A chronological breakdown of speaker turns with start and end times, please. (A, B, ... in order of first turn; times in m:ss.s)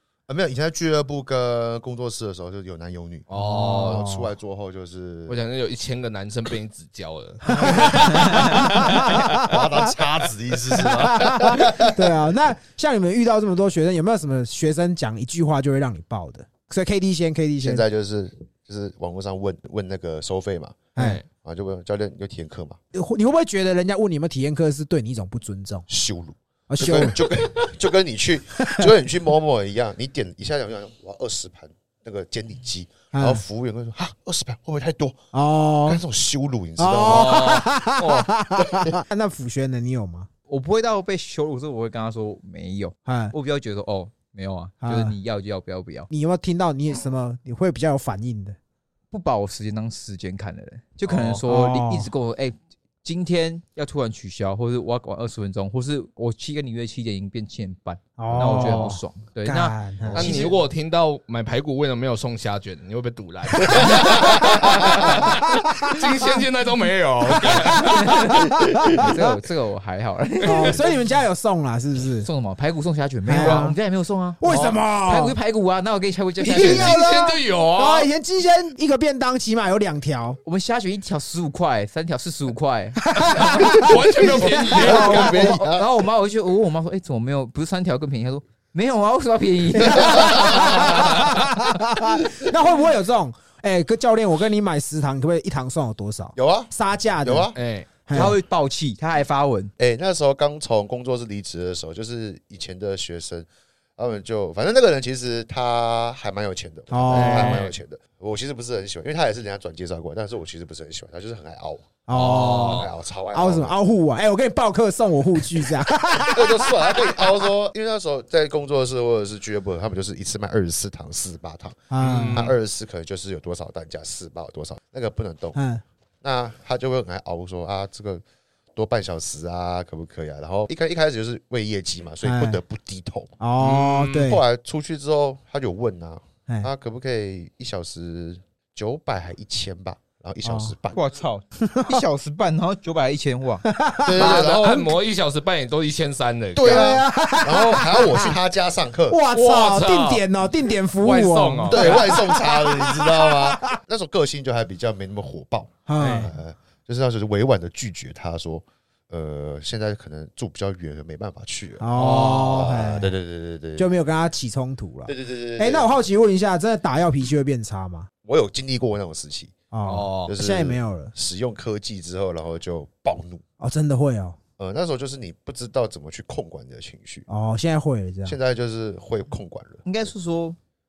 0:00.3-0:05.4 A
0:03.3-0:04.0 B
0:03.4-0:04.3 C
0:05.3-0:09.2 B
0:07.5-0:09.9 C
0:09.4-0:12.2 A
0:10.7-0:17.8 C
0:17.6-0:22.8 A
0:20.9-0:21.2 B
0:21.0-0:21.2 C
0:22.9-0:25.9 C
0:25.9-0:35.2 A
0:26.7-0:27.5 C
0:28.6-0:28.8 C
0:33.1-0:33.4 C
0:35.3-0:36.0 C
0:35.8-0:37.5 A
0:36.8-0:40.3 C
0:37.0-0:38.3 B
0:38.6-0:39.0 A
0:40.5-0:46.1 D
0:43.0-0:43.3 C
0:44.8-0:45.1 C
0:46.1-0:48.6 C
0:49.1-1:00.5 D
0:51.0-0:51.4 B
0:51.5-0:52.1 C
0:58.2-1:00.5 C
1:00.0-1:00.5 A
1:00.1-1:08.5 B
1:03.6-1:06.0 C
1:07.4-1:09.3 C
1:07.8-1:10.8 D
1:08.7-1:09.0 A
1:10.4-1:12.3 C
1:10.4-1:10.8 B
1:12.2-1:14.5 D
1:13.2-1:13.8 C
1:14.4-1:15.4 C
1:14.4-1:14.8 B
1:15.0-1:17.0 D
1:16.4-1:18.1 B
1:16.5-1:20.4 C
1:20.4-1:23.6 D
1:23.0-1:25.6 C
1:23.3-1:25.4 B
1:24.2-1:25.9 A
1:25.0-1:30.9 D
1:29.7-1:37.5 C
1:30.0-1:30.8 A
1:30.9-1:31.2 B
1:36.4-1:37.6 A
1:37.5-1:37.9 B
1:38.0-1:38.4 C
1:38.1-1:39.7 D
1:39.8-1:53.8 A
1:46.9-1:47.6 C
1:47.1-1:47.7 B
1:52.1-1:57.2 C
1:52.1-1:52.9 B
1:56.1-2:05.6 A
2:01.9-2:02.5 C
2:02.0-2:02.5 B
2:05.5-2:05.8 C
2:06.2-2:08.2 A
2:08.7-2:13.3 A
2:12.2-2:12.6 C
2:13.4-2:14.4 C
2:13.6-2:14.3 B
2:14.1-2:21.0 A
2:20.4-2:20.7 C
2:20.9-2:23.7 D
2:21.6-2:22.0 C
2:23.7-2:24.8 C
2:24.0-2:24.9 A
2:24.1-2:27.0 B
2:26.5-2:29.2 A
2:26.6-2:28.4 C
2:29.1-2:33.8 C
2:29.3-2:30.2 B
2:31.0-2:32.2 B
2:31.7-2:43.9 A
2:35.8-2:36.3 C
2:41.8-2:43.1 C
2:41.9-2:42.7 B
2:43.8-2:48.1 C
2:45.0-2:45.9 A
2:48.2-2:49.5 A
2:49.7-2:51.1 C
2:49.8-2:50.3 B
2:50.2-2:53.4 A
2:53.6-2:54.4 C
2:54.6-2:57.2 A
2:57.3-2:58.4 C
2:58.2-2:59.8 A
2:59.8-3:00.6 D